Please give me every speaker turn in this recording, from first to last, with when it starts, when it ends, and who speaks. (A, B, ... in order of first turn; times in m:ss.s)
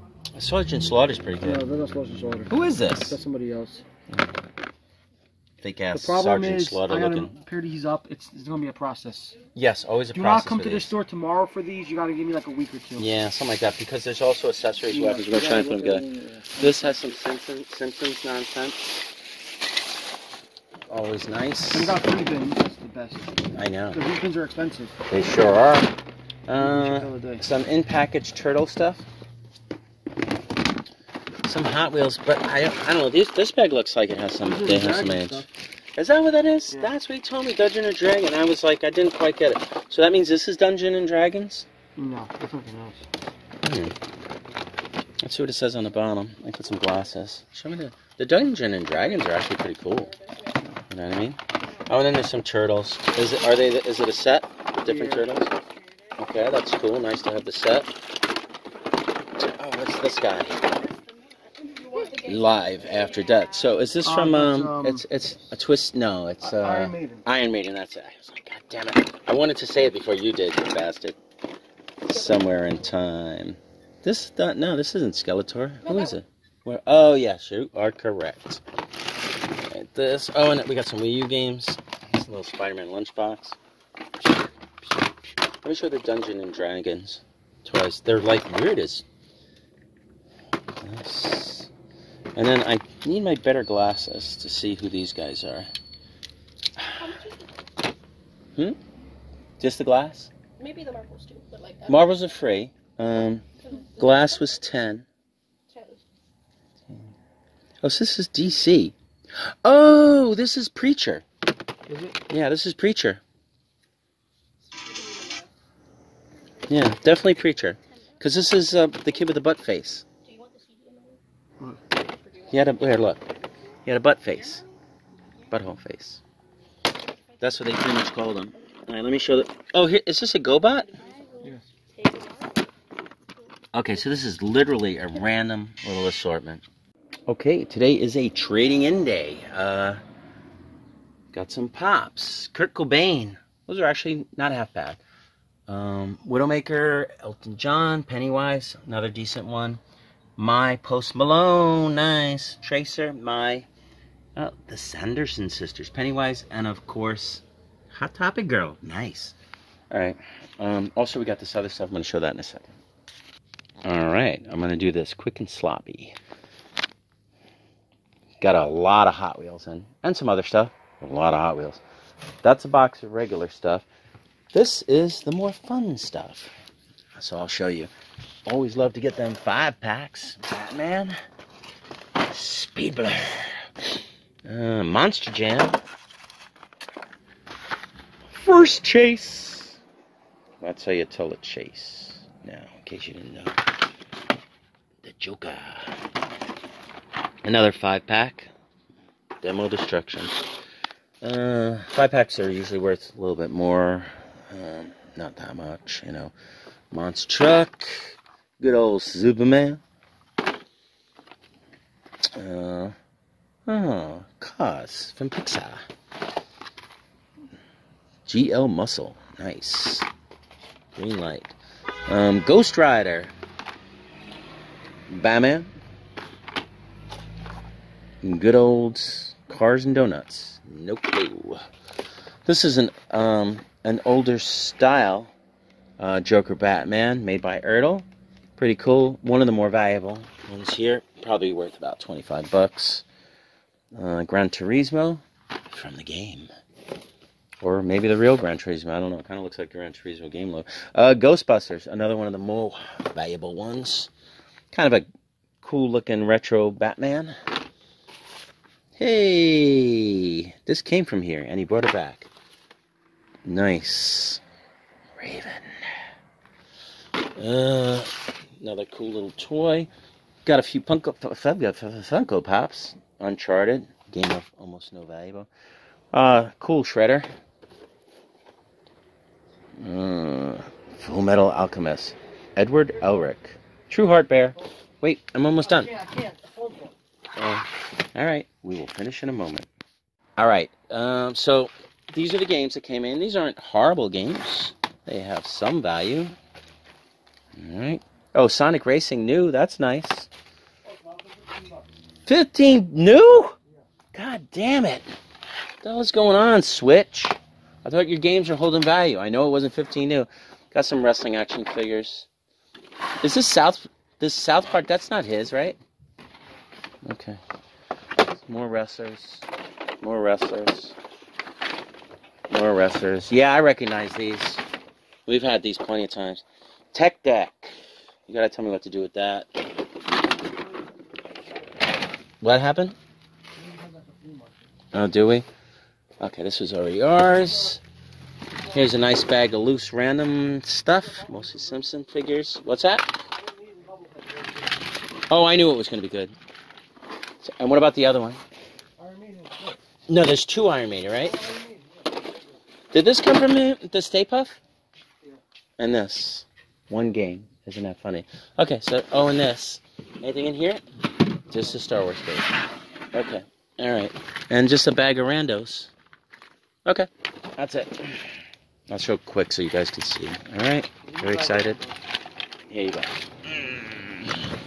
0:00.4-0:01.6 A
0:01.4-0:02.5 B
0:02.5-0:03.2 A
0:03.1-0:03.8 B
0:05.6-0:07.4 A
0:05.9-0:09.4 B
0:09.5-0:10.9 A
0:10.1-0:13.1 B
0:13.0-0:16.0 A
0:14.9-0:16.9 B
0:16.6-0:19.0 A
0:20.9-0:22.0 A
0:21.7-0:23.4 B
0:23.5-0:24.0 A
0:23.9-0:25.0 B
0:25.1-0:25.9 A
0:26.5-0:29.1 A
0:26.6-0:27.4 B
0:31.4-0:41.7 A
0:34.4-0:35.5 B
0:42.0-0:43.1 B
0:43.6-0:44.0 A
0:45.2-0:50.2 A
0:50.9-0:55.6 A
0:54.8-0:55.3 B
0:56.2-0:57.9 A
0:59.4-1:00.7 A
1:00.7-1:03.4 C
1:02.1-1:11.2 A
1:04.0-1:05.0 B
1:06.4-1:07.2 B
1:12.0-1:18.6 A
1:15.9-1:16.2 C
1:19.7-1:23.6 A
1:25.6-1:29.0 A
1:30.8-1:31.7 A
1:32.4-1:35.7 A
1:36.8-1:37.1 A
1:37.0-1:37.5 C
1:39.6-1:40.3 A
1:40.6-1:42.0 C
1:41.9-1:45.1 A
1:43.7-1:44.3 C
1:45.7-1:46.0 C
1:47.8-1:49.0 A
1:49.6-1:51.3 A
1:51.9-1:52.2 B
1:52.3-1:53.2 A
1:54.8-1:55.5 C
1:56.7-2:00.0 A
2:00.3-2:01.2 C
2:02.0-2:02.7 C
2:02.5-2:03.3 A
2:03.8-2:04.6 A
2:05.5-2:06.2 A
2:07.4-2:11.0 A
2:10.9-2:12.6 C
2:13.7-2:16.6 A
2:17.3-2:20.0 A
2:21.3-2:25.0 A
2:25.7-2:29.8 A
2:30.4-2:33.7 A
2:34.4-2:39.4 A
2:39.9-2:42.8 A
2:43.8-2:46.2 A
2:48.4-2:51.8 A
2:52.4-2:53.9 A
2:54.5-2:56.5 A
2:57.2-2:57.9 A
2:58.4-3:01.2 A
3:02.2-3:03.7 A
3:04.4-3:05.8 A
3:08.3-3:09.8 A
3:10.6-3:13.6 A
3:15.0-3:16.0 A
3:17.4-3:18.5 A
3:19.4-3:20.3 A
3:21.2-3:26.3 A
3:26.9-3:29.8 A
3:32.4-3:33.0 A
3:33.7-3:35.9 A
3:38.3-3:40.1 A
3:40.9-3:41.6 A
3:42.1-3:43.4 A
3:45.1-3:45.7 A
3:48.2-3:51.6 A
3:52.4-3:55.3 A
3:56.0-3:58.1 A
3:58.6-4:03.0 A
4:03.9-4:06.5 A
4:07.6-4:14.1 A
4:14.7-4:15.1 A
4:15.6-4:17.4 A
4:19.0-4:22.3 A
4:23.4-4:24.4 A
4:25.2-4:25.9 A
4:27.4-4:29.9 A
4:30.4-4:35.5 A
4:36.1-4:37.3 A
4:39.8-4:45.9 A
4:45.6-4:46.9 B
4:47.4-4:49.7 A
4:50.4-4:56.4 A
4:57.6-5:00.3 A
5:01.2-5:01.6 B
5:02.3-5:03.6 A
5:04.1-5:05.1 A
5:05.8-5:12.3 A
5:13.2-5:15.8 A
5:17.0-5:17.4 A
5:18.4-5:19.5 A
5:20.0-5:21.0 A
5:22.5-5:24.6 A
5:25.3-5:29.5 A
5:32.4-5:33.0 A
5:33.6-5:34.6 B
5:34.9-5:35.5 A
5:36.2-5:37.8 A
5:38.7-5:43.2 A
5:43.5-5:44.7 B
5:45.3-5:46.4 A
5:47.4-5:48.4 A
5:49.0-5:49.8 B
5:50.1-5:51.5 A
5:51.4-5:51.8 B
5:52.9-5:54.6 A
5:55.8-6:00.8 A
6:01.5-6:02.6 A
6:03.1-6:05.9 A
6:06.9-6:11.8 A
6:11.1-6:12.0 B
6:12.7-6:14.3 A